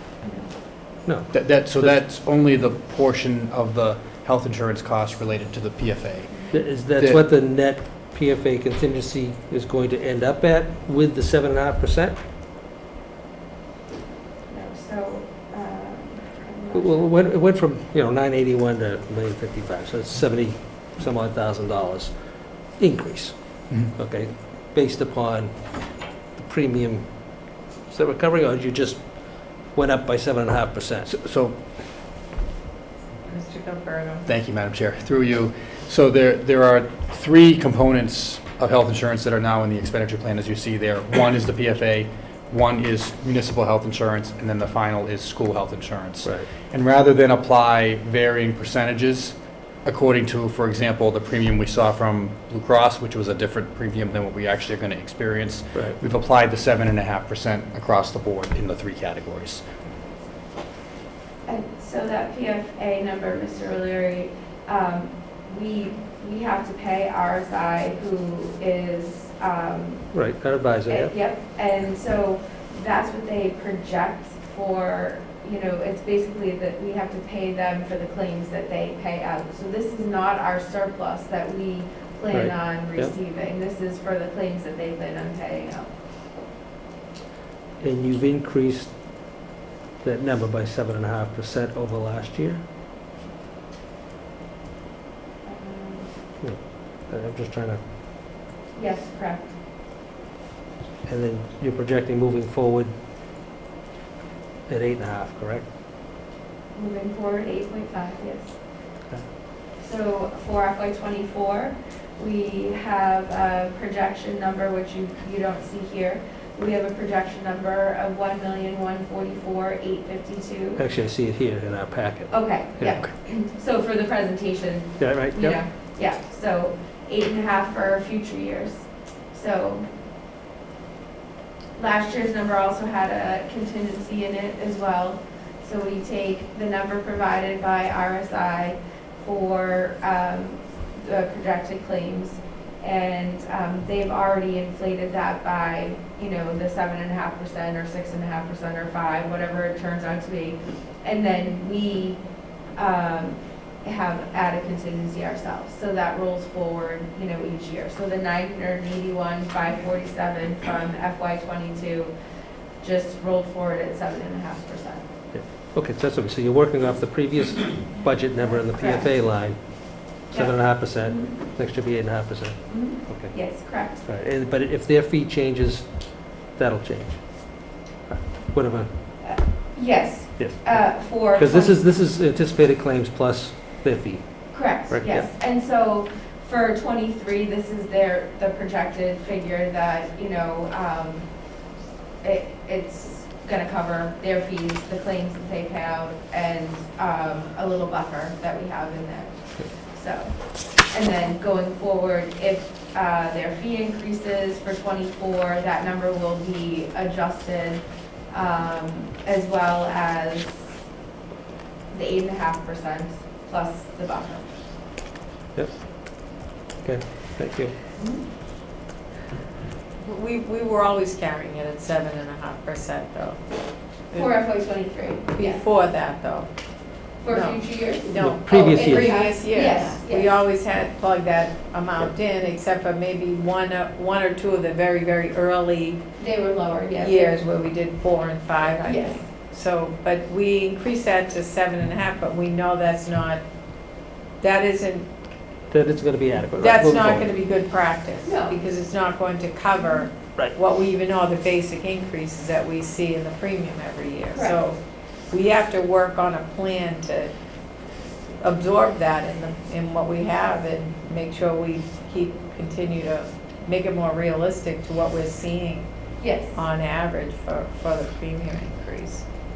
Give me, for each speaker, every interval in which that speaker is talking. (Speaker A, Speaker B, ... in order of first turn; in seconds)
Speaker A: 0.2-0.5, 14.5-17.2, 61.5-70.2, 70.9-85.9, 95.4-96.1, 98.7-99.5, 106.7-108.6, 109.8-120.8, 122.3-129.8, 131.8-152.2, 152.8-162.1, 162.8-165.1, 168.7-169.1, 170.3-171.3, 172.7-174.0, 179.2-181.8, 184.5-191.3, 192.2-210.7, 211.9-214.5, 224.1-225.6, 227.2-230.3, 236.2-237.3, 238.8-239.2, 248.2-248.6, 266.2-266.6
Speaker B: 1.0-2.0, 6.5-12.2, 16.7-31.1, 46.2-46.5, 70.1-71.1, 82.3-83.1, 87.8-88.9, 90.0-92.6, 96.4-97.8, 101.0-102.9, 104.7-105.7, 120.8-123.0, 125.0-125.6, 165.3-173.3, 174.0-178.9, 180.4-185.3, 215.5-215.8, 216.8-217.7, 228.2-229.2, 245.7-247.3
Speaker C: 1.3-7.2, 31.1-31.6, 34.2-59.6
Speaker D: 33.3-34.2, 220.0-223.4, 224.1-224.4, 225.3-226.5, 227.3-236.0, 237.0-243.4, 244.4-245.1, 246.6-254.8, 255.3-257.3, 258.4-265.9, 266.5-269.2